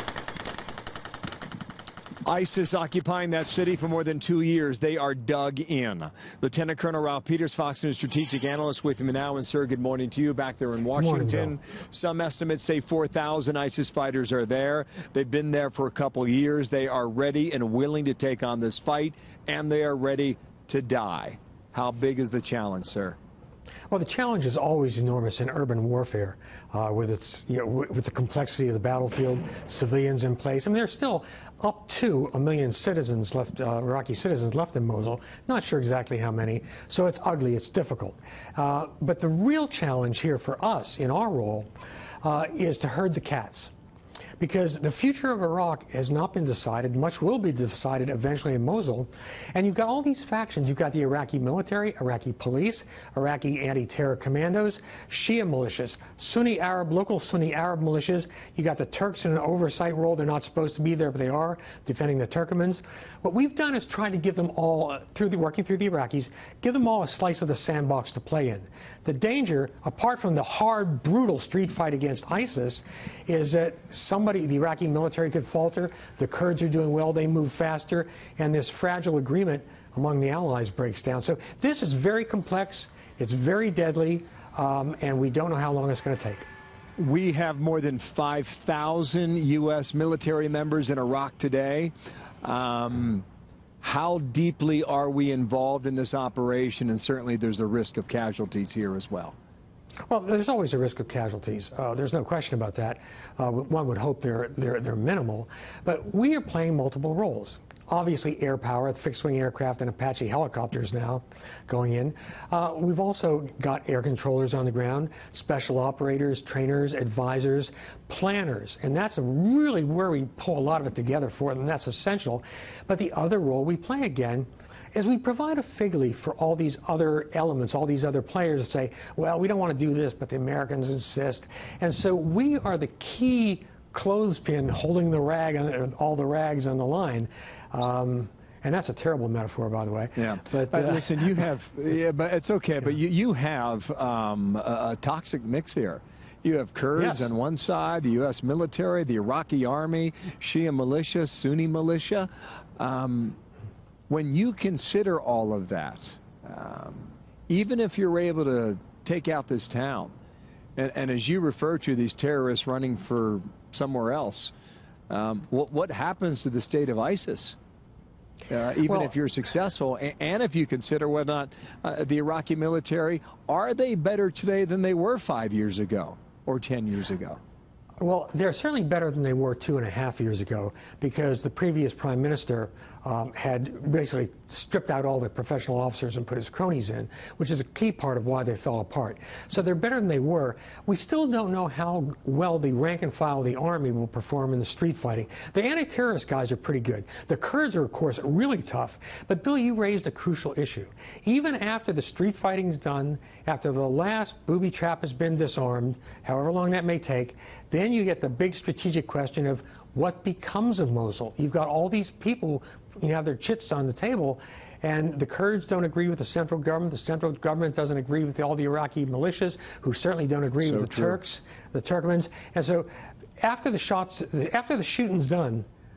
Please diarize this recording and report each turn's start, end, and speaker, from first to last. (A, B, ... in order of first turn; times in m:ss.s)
0:02.2-0:23.2 A
0:11.0-0:11.6 B
0:23.9-0:41.7 B
0:42.2-0:43.7 B
0:44.4-1:26.5 B
1:27.0-1:33.2 A
1:33.8-1:39.3 A
1:40.1-2:21.2 B
2:20.2-2:33.4 A
2:27.0-2:27.2 B
2:34.1-2:40.1 A
2:40.8-2:44.5 A
2:45.1-2:47.6 A
2:48.5-2:57.4 A
2:58.0-3:45.6 B
3:40.6-3:41.2 A